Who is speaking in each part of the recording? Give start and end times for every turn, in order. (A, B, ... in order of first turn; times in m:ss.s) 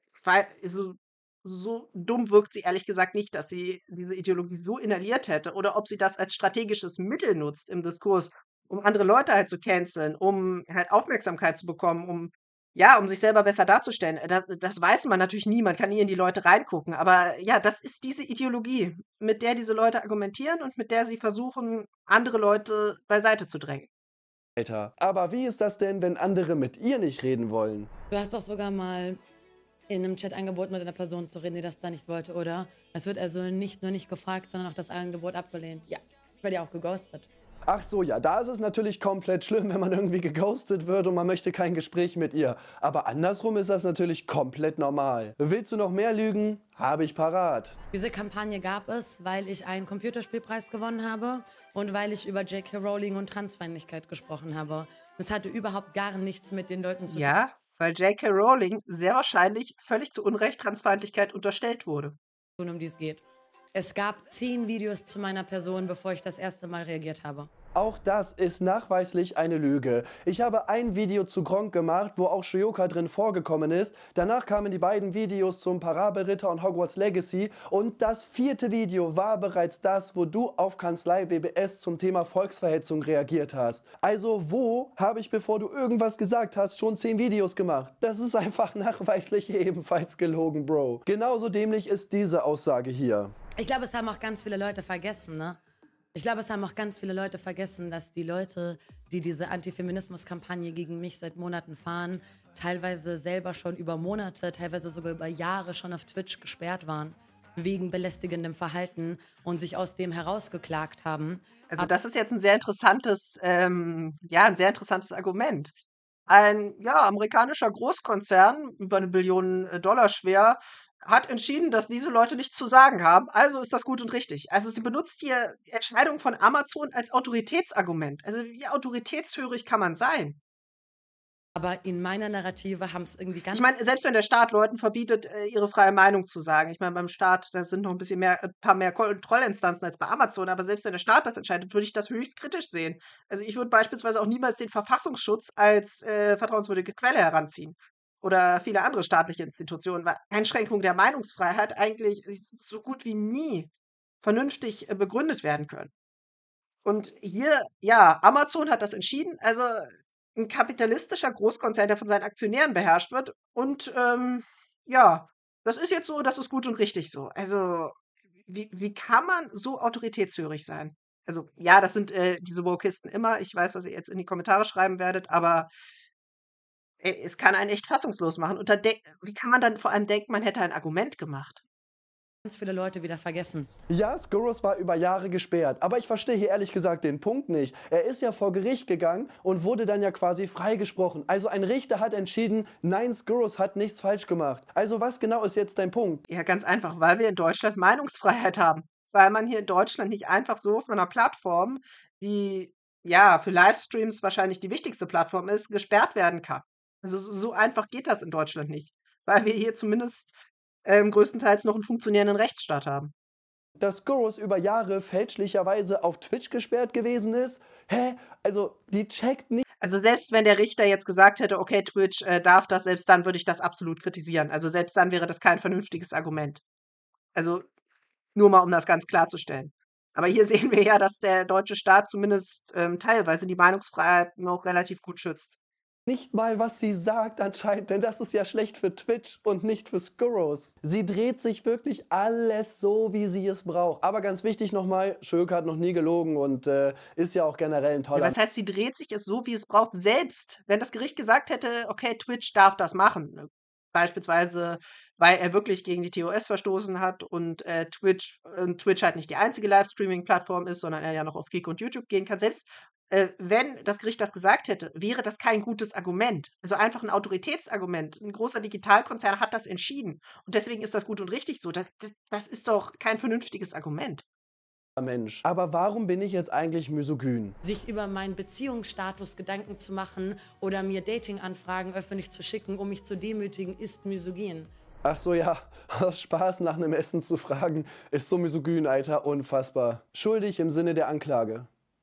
0:00.2-0:23.9 A
0:24.6-0:27.9 B
0:28.1-0:29.2 C
0:29.9-0:37.3 C
0:37.7-0:47.7 B
0:47.9-0:57.3 C
0:57.1-1:02.2 A
1:02.6-1:07.5 C
1:07.7-1:33.3 B
1:33.6-1:35.6 C
1:36.1-1:51.9 C
1:51.7-1:55.7 A
1:56.3-2:10.4 A
2:11.6-2:13.7 C
2:13.5-2:33.7 A
2:34.2-2:35.9 A
2:36.8-2:47.9 A
2:48.5-2:55.7 A
2:57.0-3:01.6 A
3:02.4-3:03.7 C
3:03.9-3:16.2 B
3:16.3-3:30.3 A
3:30.8-3:33.1 A
3:33.8-3:39.6 B
3:39.8-3:46.6 A
3:47.3-3:47.6 A
3:48.3-3:55.6 A
3:56.1-4:08.4 B
4:08.1-4:34.2 A
4:35.0-4:37.6 B
4:37.6-4:44.7 C
4:45.0-4:51.7 B